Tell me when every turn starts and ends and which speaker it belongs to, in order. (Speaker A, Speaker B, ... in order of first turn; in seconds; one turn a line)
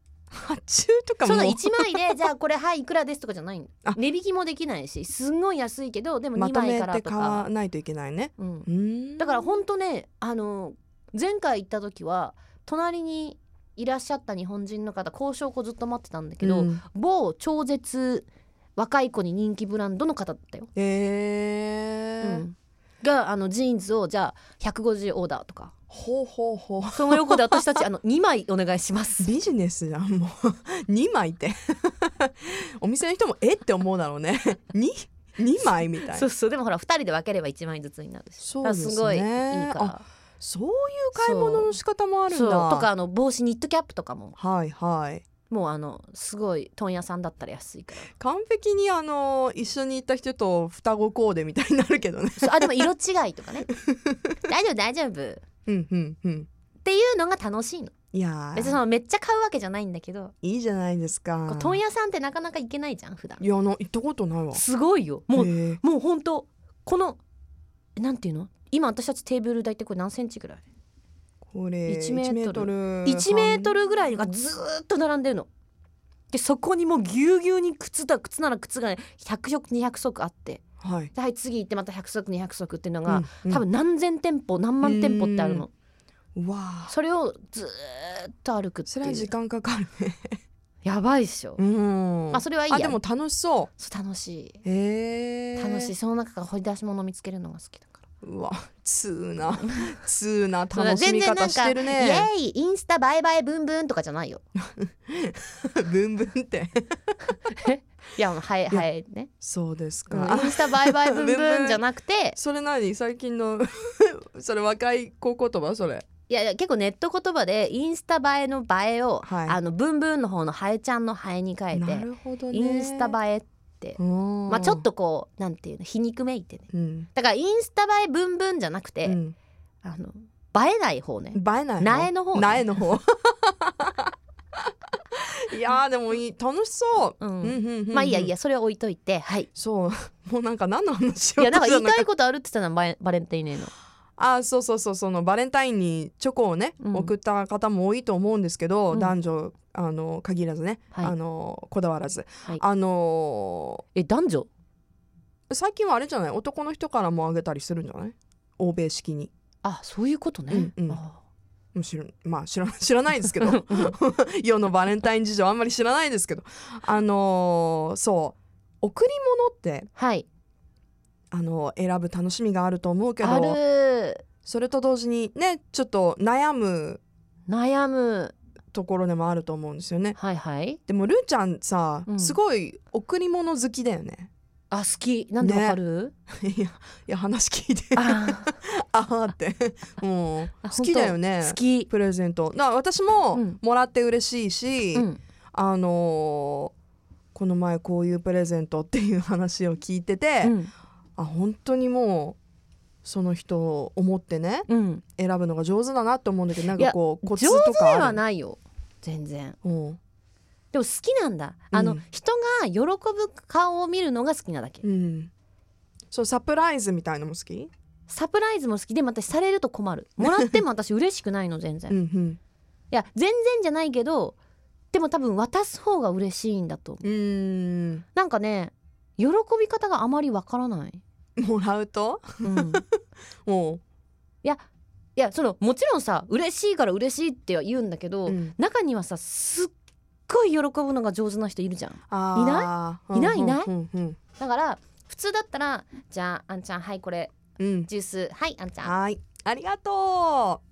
Speaker A: 0.3-2.1
Speaker B: 1.2-7.5
Speaker A: 6.3-9.5
Speaker B: 8.4-8.7
Speaker B: 9.2-20.7
Speaker A: 16.4-16.8
Speaker A: 20.7-22.4
Speaker B: 22.2-25.7
Speaker A: 25.9-27.8
Speaker B: 26.9-29.3
Speaker A: 29.2-36.3
Speaker B: 36.1-40.0
Speaker A: 38.4-42.9
Speaker B: 41.1-41.8
Speaker B: 42.3-44.4
Speaker A: 44.4-45.3
Speaker B: 45.5-48.1
Speaker A: 48.1-52.9
Speaker B: 52.4-53.7
Speaker A: 53.7-54.3
Speaker B: 54.4-55.4
Speaker A: 55.6-56.5
Speaker B: 56.8-57.9
Speaker A: 58.1-58.8
Speaker B: 58.5-60.3
Speaker A: 60.4-61.8
Speaker B: 61.5-63.4
Speaker A: 63.4-64.6
Speaker B: 64.5-67.2
Speaker A: 65.3-65.8
Speaker B: 68.0-70.6
Speaker A: 71.4-73.7
Speaker B: 71.9-75.5
Speaker B: 76.3-80.6
Speaker A: 80.8-81.1
Speaker B: 81.1-85.7
Speaker A: 83.1-83.6
Speaker A: 84.8-85.7
Speaker A: 86.3-86.9
Speaker B: 86.9-89.3
Speaker A: 88.9-90.4
Speaker B: 90.8-91.6
Speaker A: 91.6-93.7
Speaker B: 92.3-93.0
Speaker B: 93.8-94.6
Speaker A: 94.6-95.9
Speaker B: 95.6-98.0
Speaker A: 98.2-102.3
Speaker B: 99.6-100.0
Speaker B: 100.7-104.4
Speaker A: 104.6-106.8
Speaker B: 107.5-109.3
Speaker A: 109.4-111.8
Speaker B: 110.1-112.4
Speaker A: 112.4-116.1
Speaker B: 116.3-129.2
Speaker A: 119.2-119.6
Speaker A: 121.7-123.1
Speaker A: 124.0-124.8
Speaker A: 126.7-127.1
Speaker A: 129.0-129.3
Speaker B: 129.8-132.7
Speaker A: 131.3-138.3
Speaker B: 137.2-139.5
Speaker A: 139.5-142.1
Speaker B: 141.4-143.7
Speaker A: 144.2-153.8
Speaker B: 146.8-147.1
Speaker B: 153.9-154.5
Speaker A: 155.5-159.3
Speaker B: 159.6-161.2
Speaker A: 160.5-161.0
Speaker A: 161.7-169.9
Speaker B: 169.9-170.2
Speaker A: 171.3-173.6
Speaker B: 173.2-174.2
Speaker A: 174.4-177.0
Speaker B: 177.5-178.3
Speaker A: 178.7-180.2
Speaker B: 180.2-180.8
Speaker A: 180.9-184.3
Speaker B: 182.1-182.4
Speaker B: 184.7-186.1
Speaker A: 185.4-185.8
Speaker A: 186.3-196.7
Speaker B: 187.9-188.5
Speaker B: 190.6-191.9
Speaker B: 193.3-193.6
Speaker B: 194.9-195.2
Speaker A: 197.3-200.6
Speaker B: 200.4-200.7
Speaker A: 201.2-202.4
Speaker A: 203.0-208.2
Speaker B: 204.7-205.0
Speaker B: 206.7-209.6
Speaker A: 209.6-210.0
Speaker B: 210.7-214.8
Speaker A: 211.7-212.0
Speaker A: 214.8-215.3
Speaker A: 216.1-217.7
Speaker B: 218.1-221.9
Speaker A: 221.9-222.4
Speaker B: 222.9-224.3
Speaker B: 224.9-227.1
Speaker A: 227.0-228.0
Speaker B: 228.1-231.0
Speaker A: 231.4-233.8
Speaker B: 232.4-232.8
Speaker B: 235.2-239.7
Speaker A: 238.2-238.5
Speaker B: 240.3-243.7
Speaker A: 242.1-244.2
Speaker B: 244.3-248.9
Speaker A: 247.6-247.9
Speaker A: 248.8-250.6